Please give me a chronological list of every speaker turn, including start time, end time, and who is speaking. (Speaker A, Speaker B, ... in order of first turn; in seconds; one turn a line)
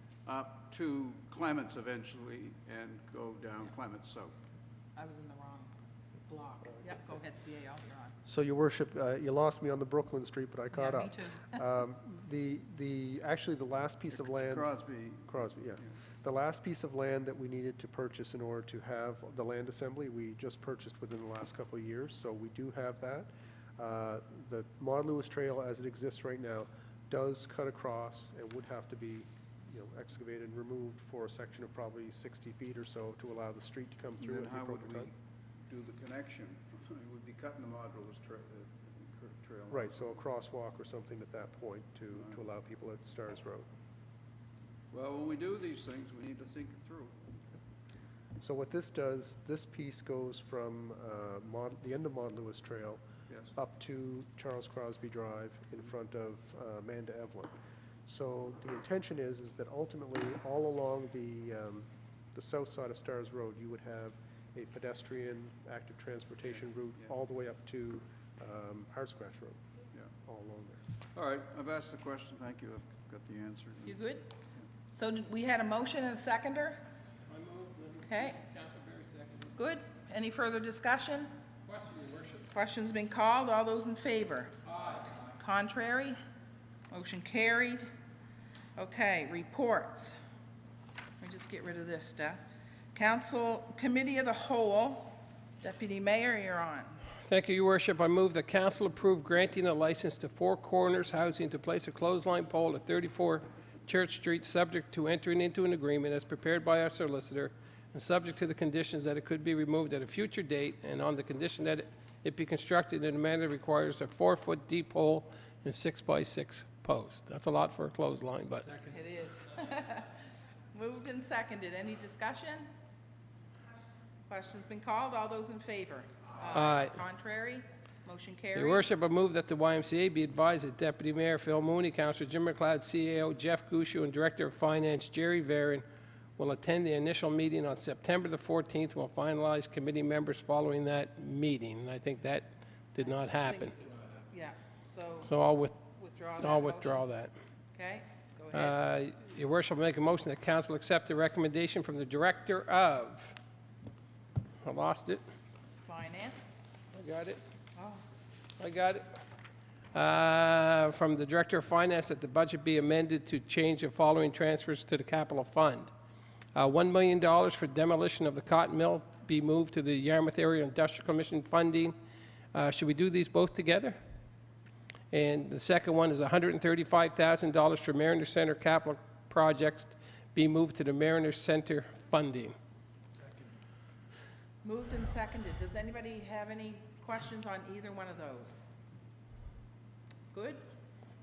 Speaker A: 0.3-4.3
Speaker B: 5.0-5.7
Speaker B: 6.3-8.2
Speaker C: 8.2-14.7
Speaker B: 10.7-11.6
Speaker A: 14.1-15.9
Speaker C: 15.3-35.1
Speaker A: 34.2-35.1
Speaker A: 35.7-40.0
Speaker C: 39.7-43.7
Speaker A: 42.1-42.4
Speaker A: 44.9-47.2
Speaker C: 48.4-53.0
Speaker C: 53.5-57.5
Speaker C: 58.1-69.6
Speaker C: 70.2-70.8
Speaker A: 71.1-74.0
Speaker B: 73.9-74.4
Speaker B: 74.9-76.8
Speaker C: 77.3-79.1
Speaker B: 78.0-78.4
Speaker B: 79.6-81.3
Speaker D: 81.7-82.5
Speaker B: 82.5-86.2
Speaker B: 86.9-87.9
Speaker B: 88.8-90.2
Speaker B: 91.2-92.4
Speaker B: 92.9-97.1
Speaker D: 97.2-118.7
Speaker B: 118.8-120.2
Speaker B: 120.7-122.7
Speaker B: 124.3-128.9
Speaker D: 126.6-126.9
Speaker D: 128.6-135.8
Speaker D: 136.4-143.7
Speaker B: 143.2-147.1
Speaker D: 145.3-145.8
Speaker D: 146.4-147.3
Speaker B: 147.7-148.8
Speaker D: 148.6-153.4
Speaker D: 154.6-155.2
Speaker B: 155.8-156.6
Speaker D: 156.9-157.4
Speaker B: 157.8-158.0
Speaker D: 158.6-159.0
Speaker D: 159.9-165.9
Speaker D: 166.5-171.9
Speaker D: 172.5-174.0
Speaker D: 175.1-182.6
Speaker B: 184.6-188.6
Speaker B: 190.3-190.6